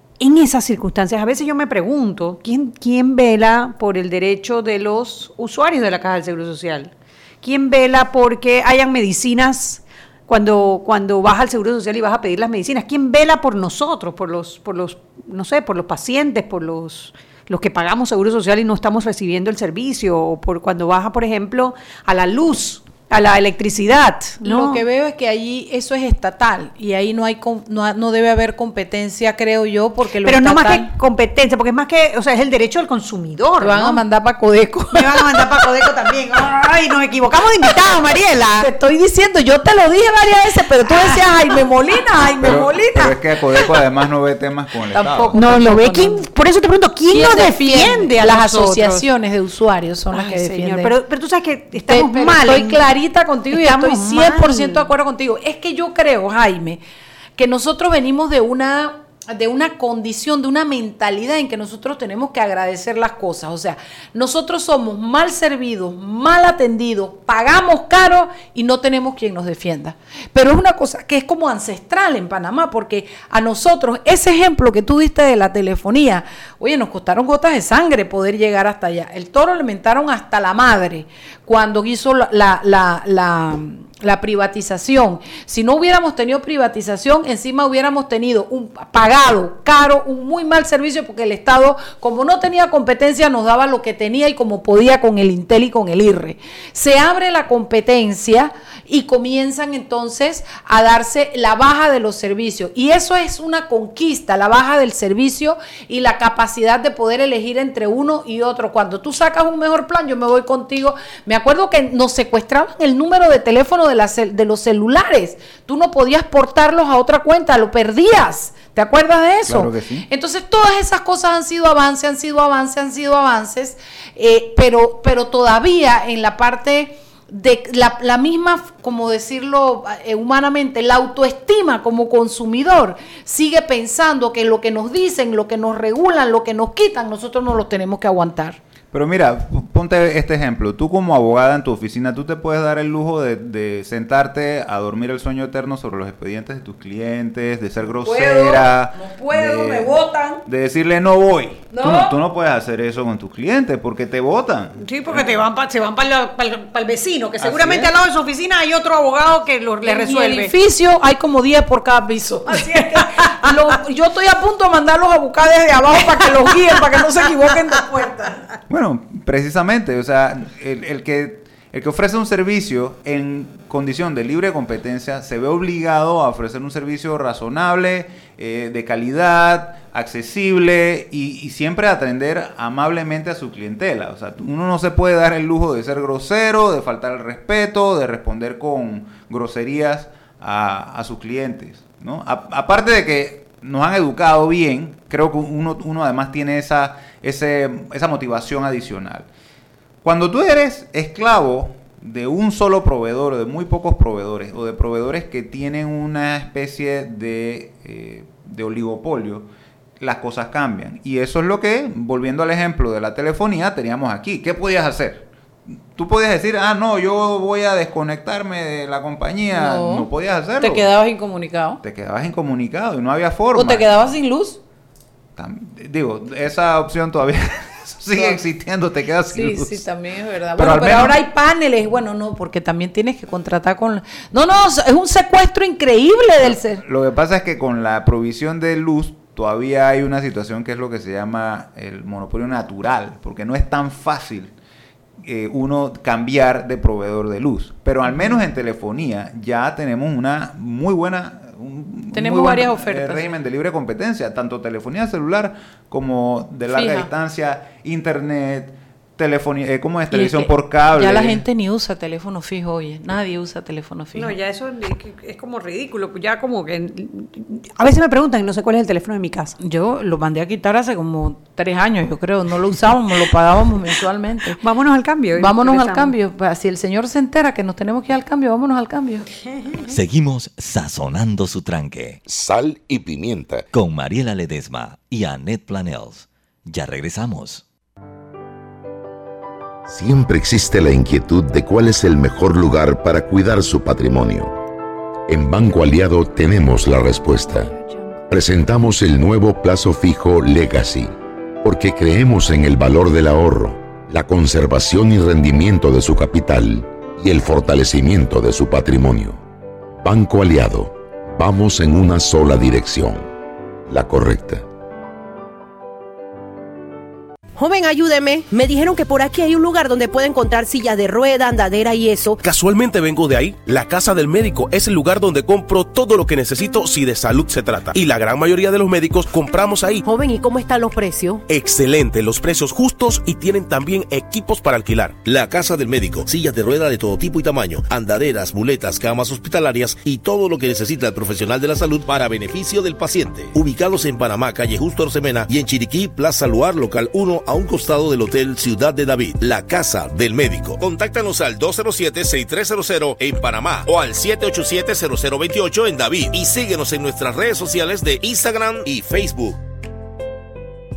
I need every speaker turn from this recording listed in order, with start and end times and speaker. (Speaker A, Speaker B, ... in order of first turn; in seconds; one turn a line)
Speaker A: 0.2-24.8
Speaker B: 24.4-30.9
Speaker A: 30.2-34.0
Speaker B: 33.6-35.6
Speaker A: 34.9-38.7
Speaker B: 38.6-43.8
Speaker C: 42.4-45.4
Speaker B: 44.9-46.2
Speaker A: 45.3-49.0
Speaker B: 47.1-51.0
Speaker A: 50.1-52.8
Speaker B: 51.8-56.8
Speaker A: 53.5-54.9
Speaker B: 57.4-138.6
Speaker C: 119.5-120.1
Speaker C: 138.9-155.3
Speaker B: 148.0-150.4
Speaker B: 151.7-152.1
Speaker A: 154.8-160.5
Speaker C: 157.4-157.9
Speaker B: 159.8-168.4
Speaker A: 162.5-163.5
Speaker C: 168.7-199.3
Speaker C: 200.0-209.5
Speaker C: 210.0-220.9
Speaker B: 219.5-221.8
Speaker C: 221.8-223.9
Speaker B: 223.5-224.6
Speaker C: 225.4-229.8
Speaker B: 228.1-228.4
Speaker B: 229.3-236.8
Speaker C: 230.6-231.2
Speaker C: 236.4-244.5
Speaker C: 245.2-261.4
Speaker B: 248.0-248.4
Speaker B: 252.1-253.3
Speaker B: 256.7-257.1
Speaker B: 260.1-264.3
Speaker A: 264.1-269.6
Speaker B: 269.6-274.6
Speaker A: 274.6-276.1
Speaker B: 275.4-279.3
Speaker D: 279.9-282.2
Speaker E: 282.2-283.6
Speaker D: 283.7-287.6
Speaker E: 289.9-294.5
Speaker E: 295.3-301.1
Speaker E: 301.6-309.4
Speaker E: 310.0-313.3
Speaker E: 313.9-314.6
Speaker F: 317.6-322.4
Speaker G: 322.4-330.0
Speaker F: 330.1-331.4
Speaker G: 331.5-359.6